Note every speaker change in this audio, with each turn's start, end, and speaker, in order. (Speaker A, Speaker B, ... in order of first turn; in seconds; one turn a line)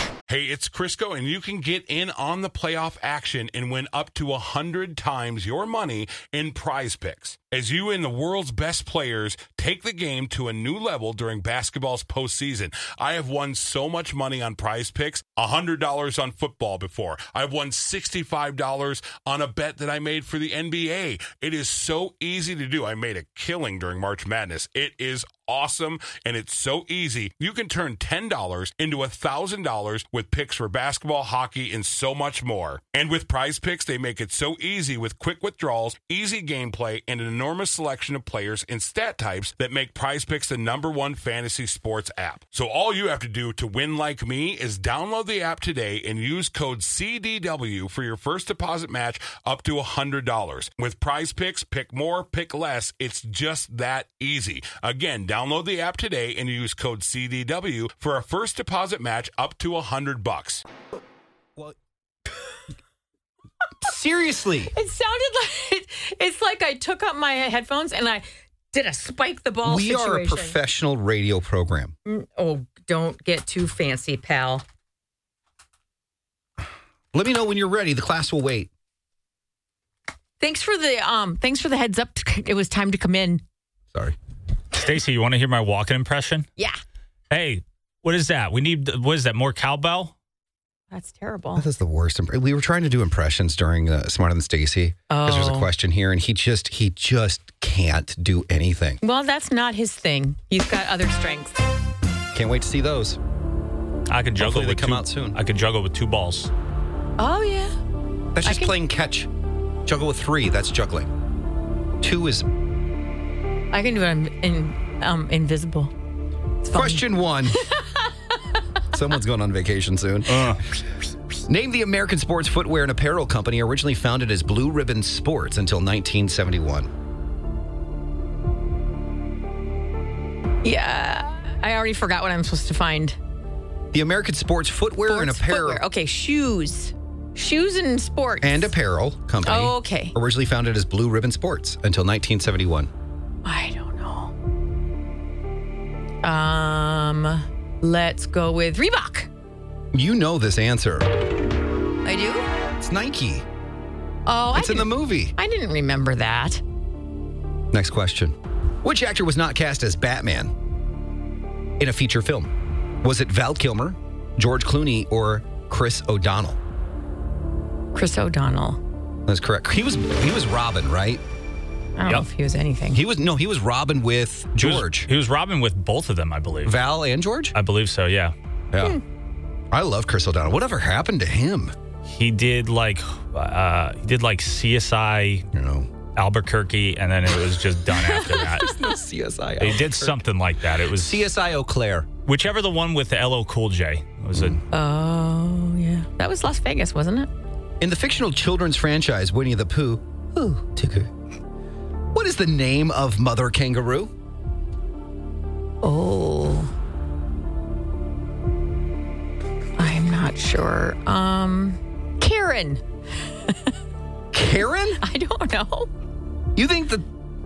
Speaker A: 0.3-60.6
Speaker B: 63.8-64.7
Speaker C: 64.7-70.6
Speaker B: 69.6-71.9
Speaker C: 72.0-74.6
Speaker B: 77.1-78.7
Speaker C: 80.4-83.4
Speaker D: 84.7-86.5
Speaker D: 87.3-90.1
Speaker C: 90.9-91.6
Speaker B: 91.5-99.0
Speaker C: 95.1-95.7
Speaker C: 99.0-101.6
Speaker B: 102.3-103.2
Speaker D: 104.1-106.5
Speaker B: 104.4-105.4
Speaker C: 107.2-107.7
Speaker B: 108.3-109.3
Speaker C: 108.4-108.7
Speaker B: 109.8-111.1
Speaker B: 112.0-112.5
Speaker C: 113.7-115.9
Speaker C: 116.6-118.1
Speaker B: 116.7-117.6
Speaker B: 118.9-120.6
Speaker D: 120.3-120.6
Speaker B: 121.5-126.9
Speaker C: 130.6-133.2
Speaker B: 133.9-135.8
Speaker C: 135.0-138.7
Speaker B: 138.4-142.9
Speaker C: 139.4-140.1
Speaker C: 143.4-144.3
Speaker C: 146.2-149.3
Speaker B: 149.9-151.1
Speaker C: 152.0-152.5
Speaker B: 152.8-153.4
Speaker C: 154.2-156.6
Speaker B: 154.5-155.3
Speaker B: 157.7-160.5
Speaker B: 161.8-162.5
Speaker B: 163.0-166.6
Speaker C: 167.9-168.8
Speaker B: 169.3-171.2
Speaker C: 172.0-173.0
Speaker B: 172.9-175.1
Speaker D: 174.6-176.8
Speaker B: 176.6-177.5
Speaker D: 177.5-178.3
Speaker B: 178.7-179.0
Speaker B: 179.7-181.7
Speaker D: 182.1-185.4
Speaker B: 185.5-185.9
Speaker D: 186.2-188.7
Speaker B: 188.4-190.2
Speaker D: 189.6-191.2
Speaker B: 191.0-192.1
Speaker D: 192.2-194.6
Speaker B: 194.3-194.6
Speaker C: 194.7-197.3
Speaker B: 197.8-201.1
Speaker B: 202.1-204.1
Speaker C: 205.8-206.7
Speaker C: 209.8-212.8
Speaker B: 214.3-215.0
Speaker C: 215.0-215.9
Speaker B: 216.6-217.0